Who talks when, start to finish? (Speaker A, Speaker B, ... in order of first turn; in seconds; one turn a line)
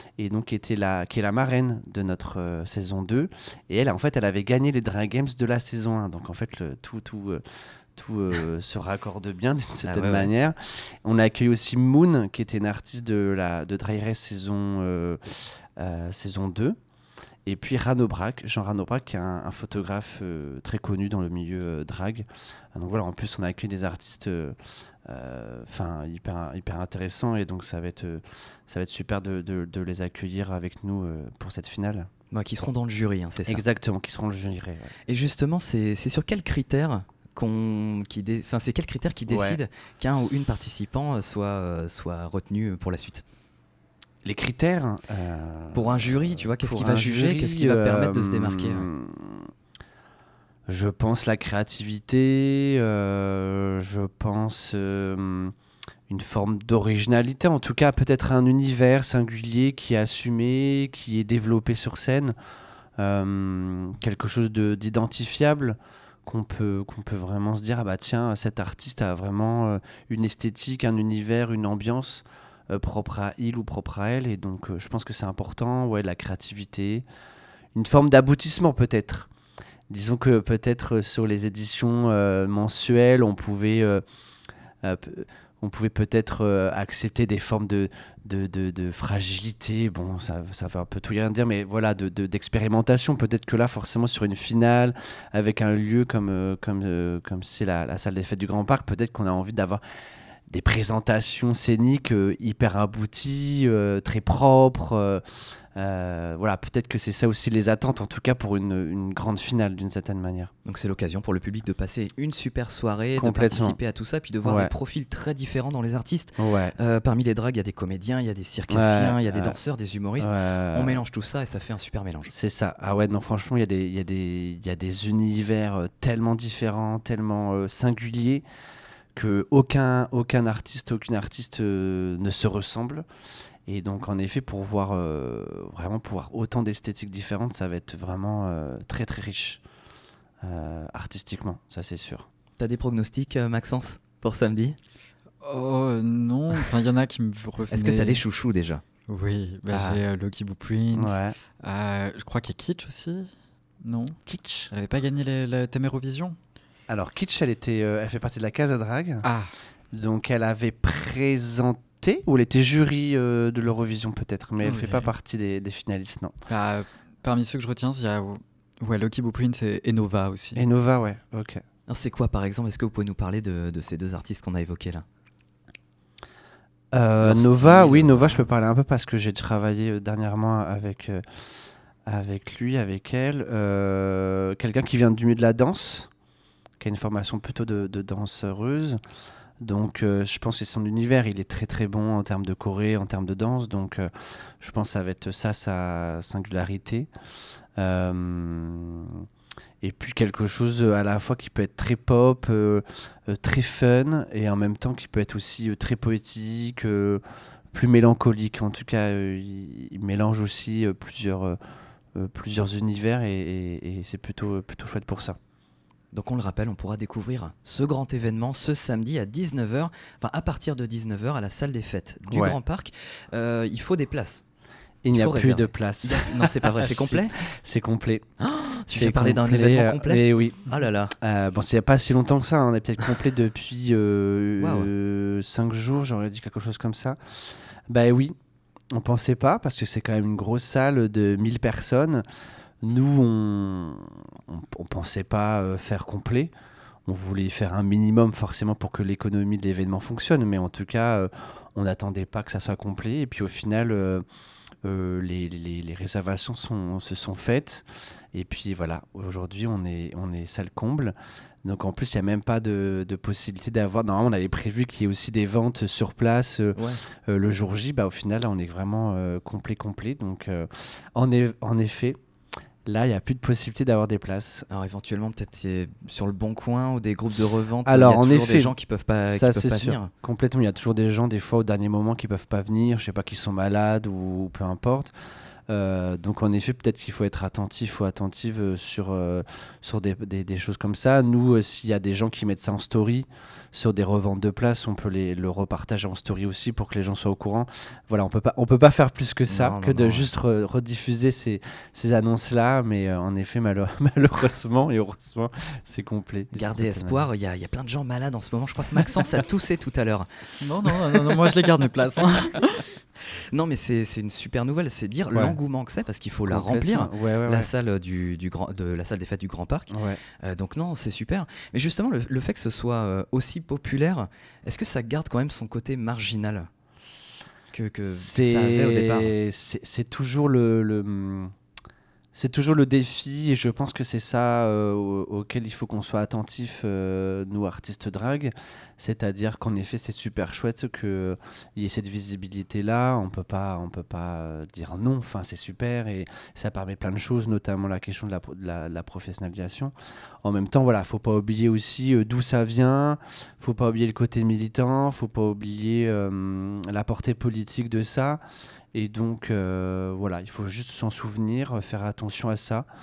Speaker A: 0.2-7.4
Speaker A: 8.0-16.8
Speaker B: 9.8-10.3
Speaker A: 17.5-32.1
Speaker B: 32.3-33.6
Speaker A: 33.5-34.9
Speaker B: 35.1-43.2
Speaker A: 39.3-39.6
Speaker A: 44.2-49.5
Speaker B: 45.7-48.9
Speaker A: 50.7-55.5
Speaker A: 56.1-62.4
Speaker A: 63.0-77.1
Speaker A: 77.8-79.3
Speaker A: 79.9-84.0
Speaker A: 84.8-99.8
Speaker A: 100.5-105.2
Speaker A: 105.8-110.5
Speaker B: 110.7-122.3
Speaker A: 113.2-113.8
Speaker A: 114.4-114.7
Speaker A: 116.4-116.7
Speaker A: 118.7-119.6
Speaker A: 120.2-121.0
Speaker A: 122.3-128.4
Speaker A: 129.2-133.1
Speaker A: 133.7-139.6
Speaker A: 140.4-142.3
Speaker B: 142.6-144.8
Speaker C: 145.4-148.2
Speaker B: 147.7-148.8
Speaker C: 149.1-153.3
Speaker A: 149.7-150.0
Speaker A: 150.9-151.4
Speaker C: 153.8-154.2
Speaker A: 154.3-154.7
Speaker C: 154.7-156.4
Speaker A: 156.9-159.3
Speaker C: 159.2-159.5
Speaker A: 159.9-166.3
Speaker C: 164.6-165.1
Speaker C: 166.5-170.7
Speaker A: 170.6-171.6
Speaker B: 171.9-175.1
Speaker A: 176.9-181.2
Speaker B: 177.2-178.3
Speaker A: 182.1-186.1
Speaker A: 186.8-189.0
Speaker A: 189.6-197.1
Speaker A: 197.8-199.3
Speaker A: 199.8-207.2
Speaker A: 207.7-211.6
Speaker A: 212.2-215.4
Speaker B: 216.1-224.4
Speaker A: 222.3-222.6
Speaker A: 225.0-228.3
Speaker B: 225.1-227.4
Speaker B: 228.4-231.1
Speaker A: 228.9-237.2
Speaker B: 234.6-234.9
Speaker A: 237.9-238.4
Speaker A: 238.9-242.2
Speaker A: 242.8-246.5
Speaker A: 247.1-254.2
Speaker A: 254.8-272.2
Speaker B: 266.8-267.0
Speaker A: 272.9-274.7
Speaker B: 274.7-280.1
Speaker A: 277.9-278.8
Speaker A: 279.3-285.1
Speaker A: 285.7-307.3
Speaker B: 299.5-300.3
Speaker B: 306.5-311.5
Speaker C: 310.6-312.7
Speaker B: 312.2-312.7
Speaker B: 313.5-326.7
Speaker A: 316.5-317.7
Speaker A: 319.9-320.2
Speaker B: 327.7-329.4
Speaker A: 328.1-331.5
Speaker A: 332.3-358.4
Speaker A: 358.9-362.9